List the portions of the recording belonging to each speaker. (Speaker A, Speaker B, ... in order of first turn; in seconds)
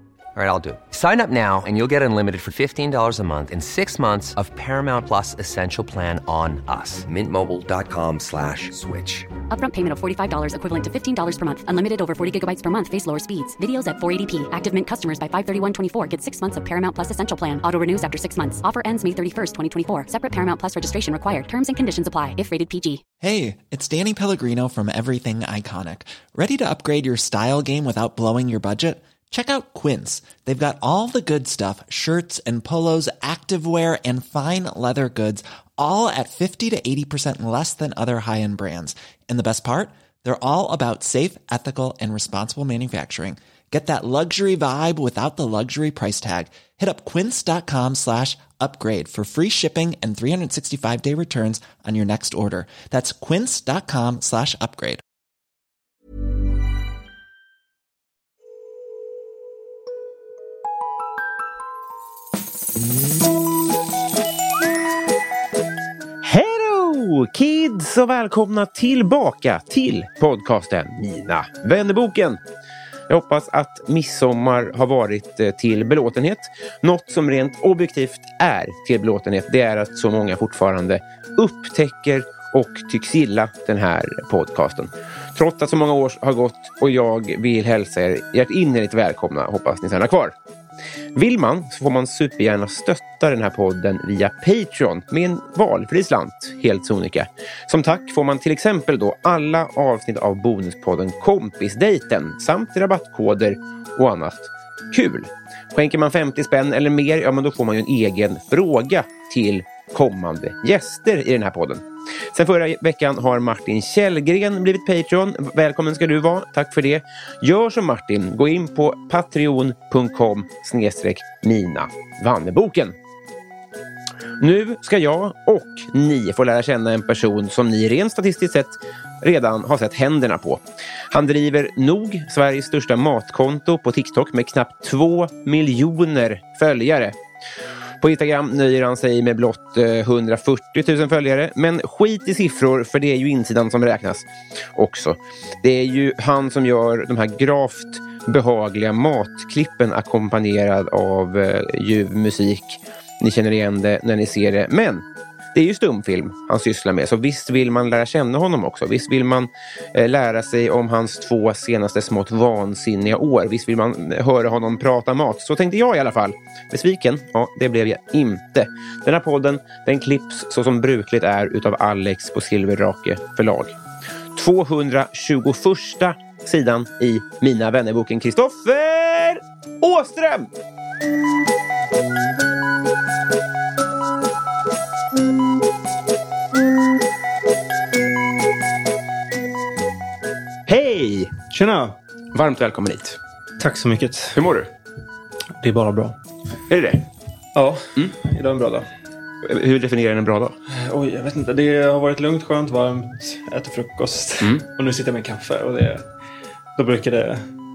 Speaker A: 0.3-9.3
Speaker B: 9.5-23.0
Speaker C: 23.2-55.0
Speaker D: 66.2-72.4, 73.1-90.3, 91.2-122.9, 124.4-137.2, 138.0-173.8, 174.3-180.5, 190.7-191.4, 192.3-193.2, 194.3-194.7, 196.7-197.0, 199.4-200.6
Speaker E: 191.5-192.0, 193.6-194.4, 195.6-196.2, 197.6-198.9, 200.7-206.1, 206.8-207.5